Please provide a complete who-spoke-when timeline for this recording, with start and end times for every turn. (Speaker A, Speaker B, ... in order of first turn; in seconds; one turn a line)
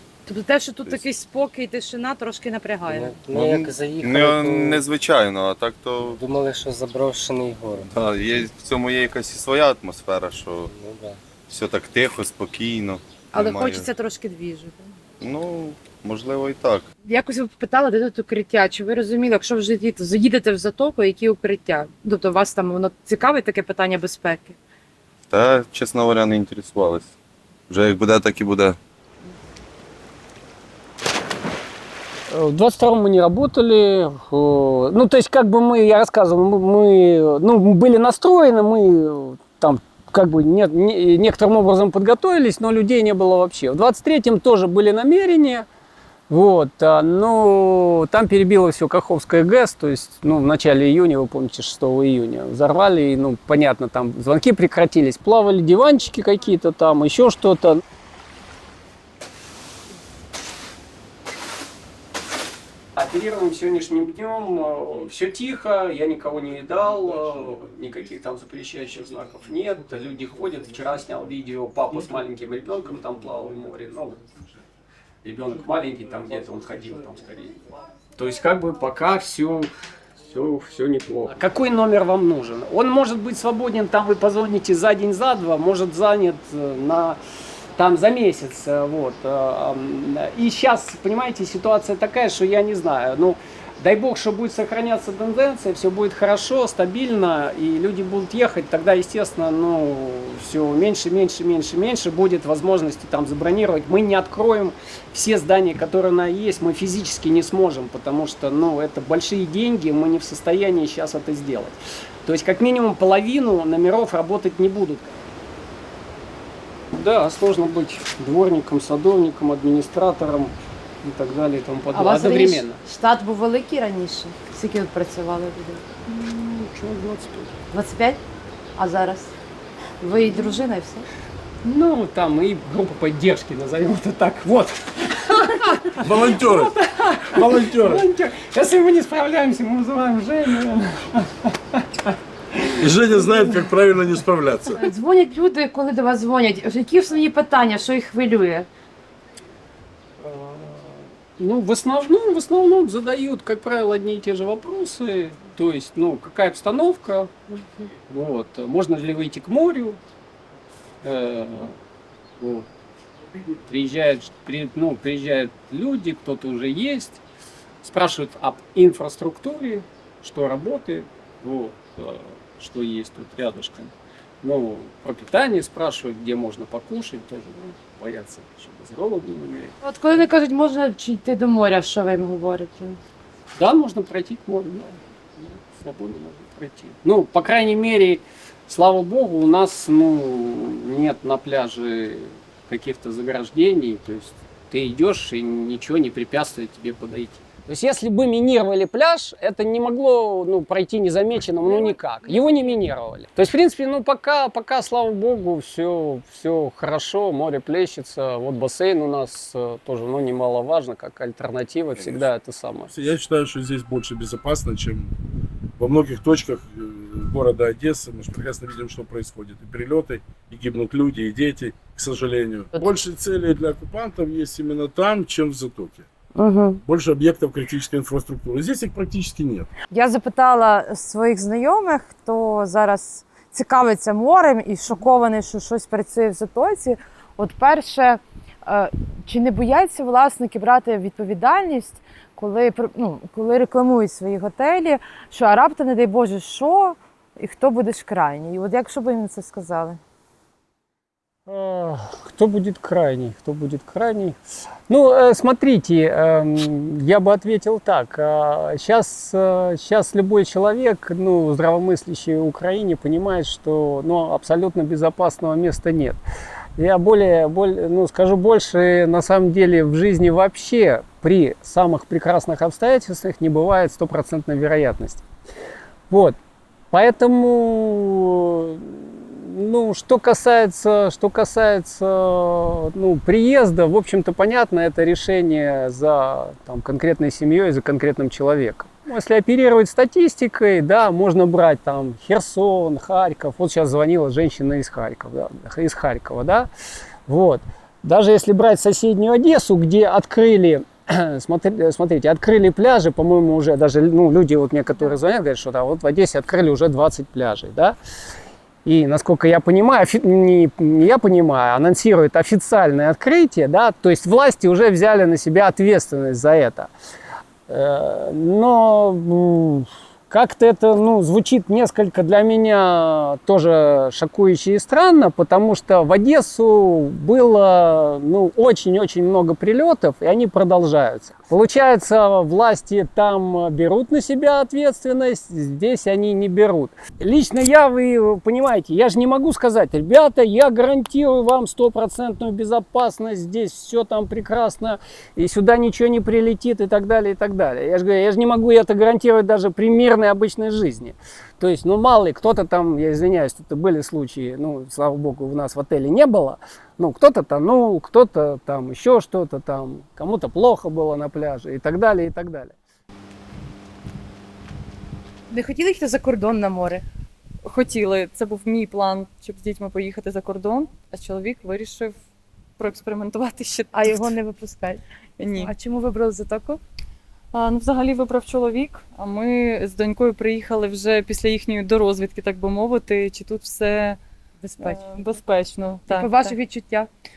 Speaker A: 0.3-3.2
Speaker B: 2.9-4.8
Speaker C: 3.3-6.2
Speaker B: 6.0-7.9
Speaker C: 7.9-10.7
Speaker B: 10.7-11.2
Speaker C: 11.5-13.9
Speaker A: 13.3-14.9
Speaker C: 15.2-16.9
Speaker A: 17.1-24.6
Speaker C: 25.3-27.1
Speaker C: 27.7-28.8
Speaker D: 32.3-45.7
Speaker D: 46.3-57.8
Speaker D: 63.0-74.2
Speaker D: 75.2-77.6
Speaker D: 78.2-79.7
Speaker D: 80.2-87.2
Speaker D: 87.8-115.2
Speaker D: 116.9-122.8
Speaker A: 121.9-125.8
Speaker D: 126.1-127.5
Speaker A: 127.7-128.2
Speaker A: 128.8-129.3
Speaker A: 130.0-131.1
Speaker D: 131.6-142.7
Speaker E: 135.9-138.1
Speaker E: 142.8-144.9
Speaker A: 144.8-148.7
Speaker D: 150.2-157.3
Speaker D: 158.1-160.0
Speaker D: 161.0-161.8
Speaker D: 162.4-162.7
Speaker D: 163.6-167.2
Speaker D: 167.8-179.8
Speaker A: 179.8-183.0
Speaker D: 183.6-212.9
Speaker A: 201.6-202.8
Speaker E: 212.0-212.3
Speaker E: 212.9-215.1
Speaker E: 215.8-226.1
Speaker A: 226.3-226.8
Speaker E: 226.8-229.7
Speaker A: 229.9-250.0
Speaker D: 251.5-266.2
Speaker D: 266.8-275.3
Speaker D: 276.1-276.4
Speaker D: 276.9-296.7
Speaker D: 297.3-308.0
Speaker D: 308.9-316.9
Speaker D: 317.7-362.8
Speaker A: 365.5-367.1
Speaker F: 367.6-372.2
Speaker F: 372.8-374.2
Speaker A: 373.9-375.0
Speaker F: 375.4-375.7
Speaker A: 375.5-376.8
Speaker F: 377.5-384.2
Speaker A: 384.6-385.3
Speaker F: 384.8-386.6
Speaker A: 386.1-387.1